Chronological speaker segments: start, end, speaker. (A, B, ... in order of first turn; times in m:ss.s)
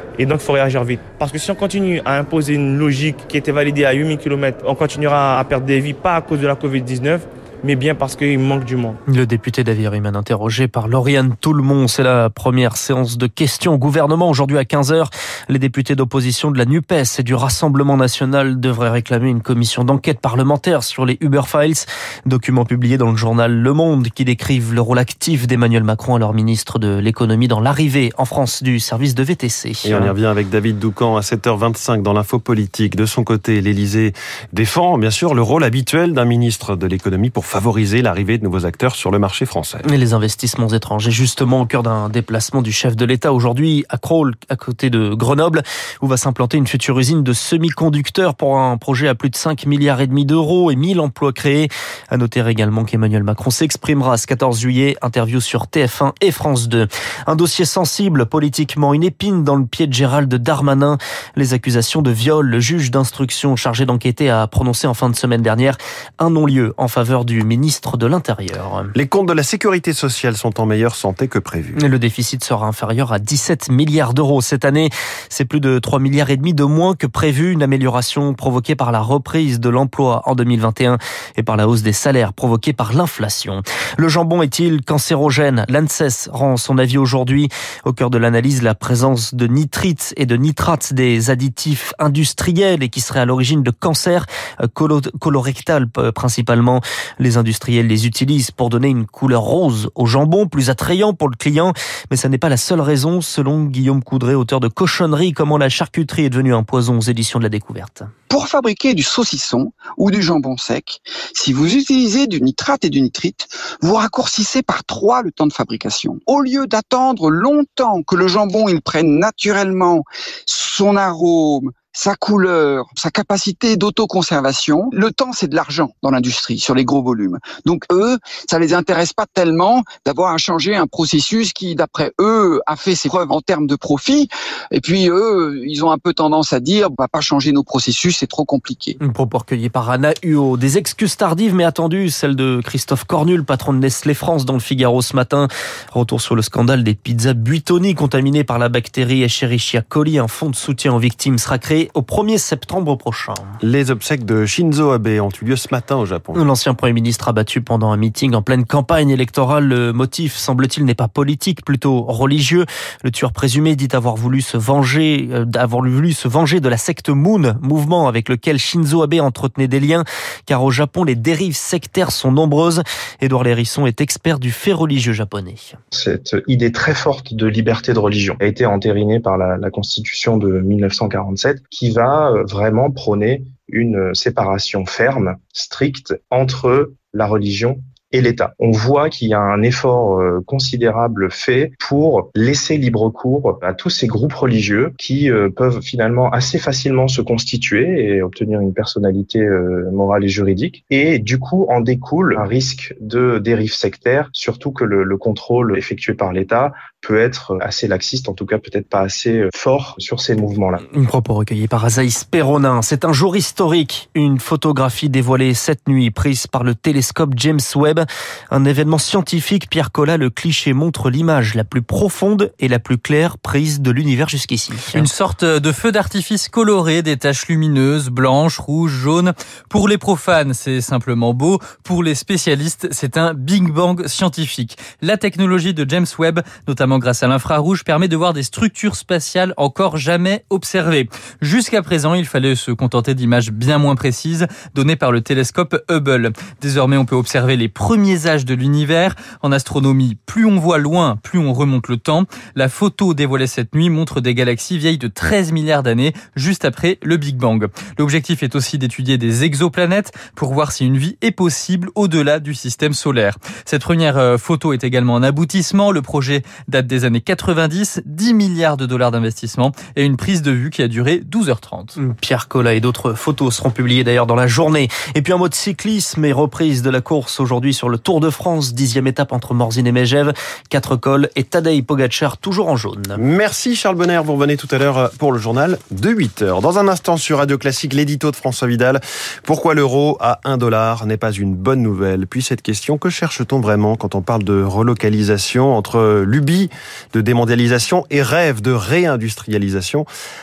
0:00.2-0:09.0 A
0:09.1-0:30.1 B
0:29.8-0:39.8 C
0:39.9-1:08.9 B
1:09.0-1:11.8 C
1:11.8-1:48.1 B
1:48.3-2:19.0 D
2:19.0-2:33.6 B
2:33.6-2:36.4 C
2:36.4-2:55.8 B
2:55.9-3:30.8 E
3:30.9-3:45.1 B
3:44.9-4:32.0 F
4:32.0-4:43.2 B
4:43.2-5:00.1 C